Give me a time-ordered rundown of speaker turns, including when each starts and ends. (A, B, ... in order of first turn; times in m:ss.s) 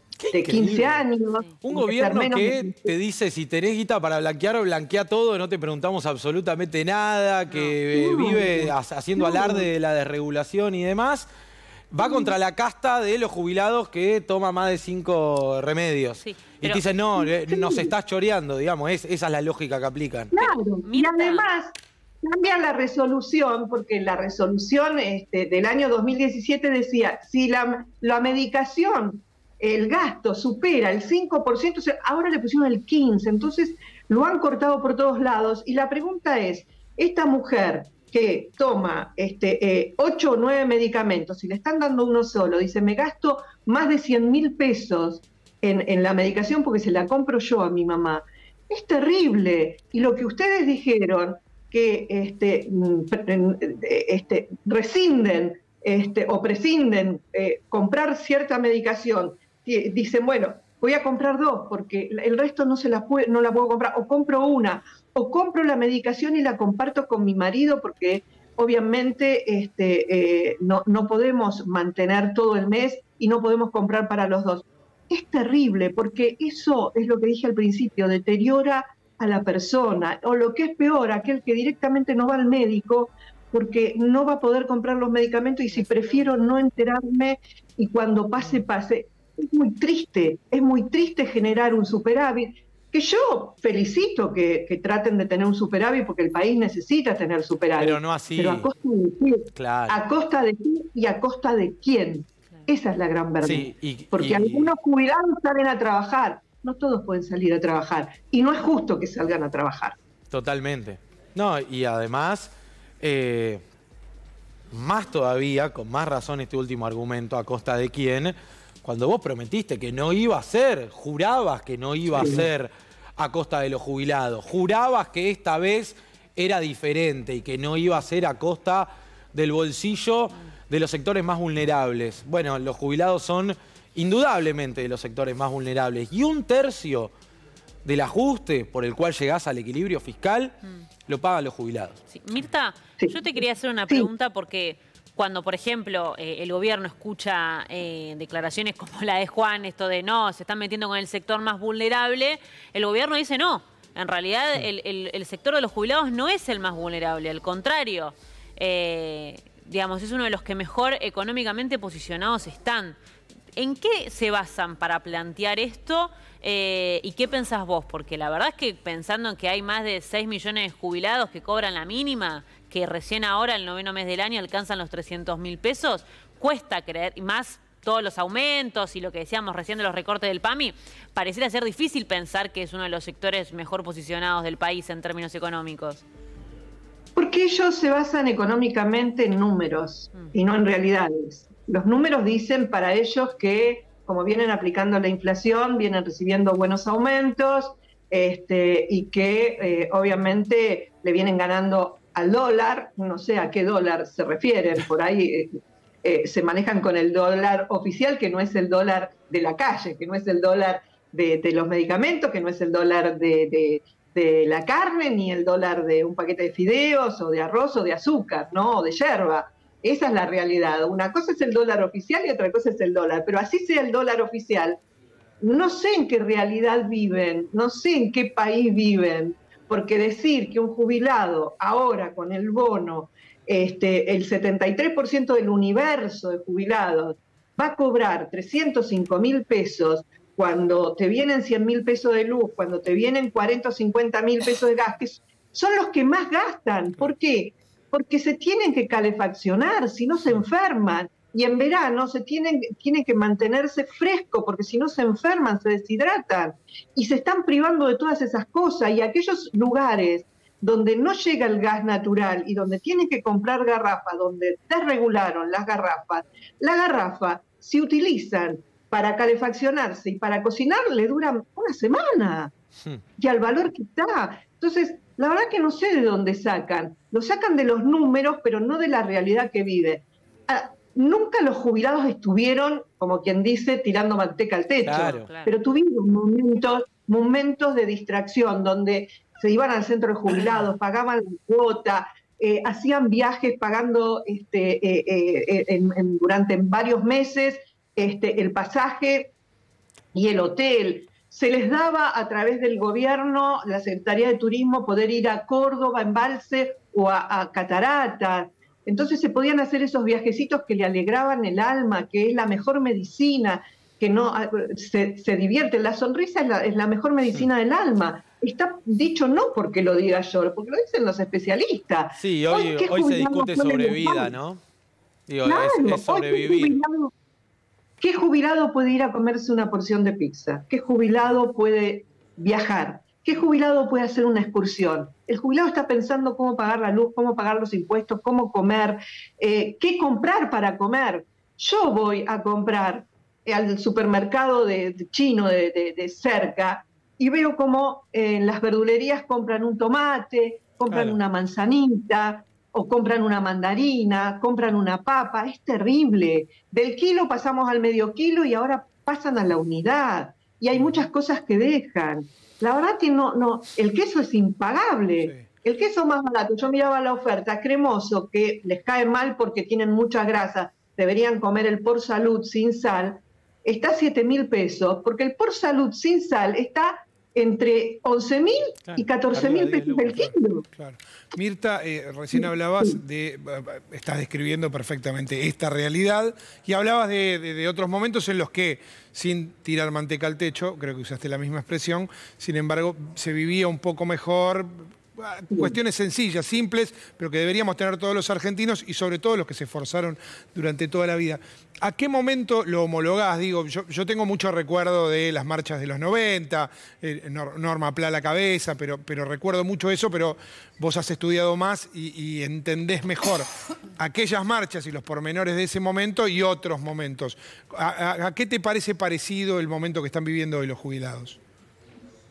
0:00.2-0:01.0 A
0:00.3-0:02.9 B
0:01.6-0:11.3 A
0:07.5-0:07.8 C
0:07.9-0:09.7 B
0:11.9-0:20.3 A
0:12.0-0:12.3 B
0:16.2-0:16.8 C
0:17.2-0:17.9 B
0:20.3-1:50.0 B
0:20.4-0:21.5 C
1:25.7-1:26.4 C
1:37.8-1:38.7 A
1:39.6-1:40.0 A
1:43.4-1:44.7 A
1:50.3-1:53.6 A
1:54.7-2:17.1 A
2:02.2-2:02.4 B
2:17.8-2:20.6 A
2:21.1-2:22.0 A
2:22.1-2:43.0 C
2:43.6-3:06.0 C
3:07.2-3:44.8 B
3:45.4-4:32.5 B
4:33.2-4:59.3 B
4:44.8-4:45.3 A
4:45.2-4:45.5 C
5:00.1-5:24.3 B
5:22.2-5:24.6 A
5:25.3-5:26.8 A
5:25.4-5:27.1 B
5:28.0-6:20.6 B
6:18.9-6:20.2 A
6:20.2-6:53.5 D
6:22.4-6:23.0 B
6:54.0-7:01.4 D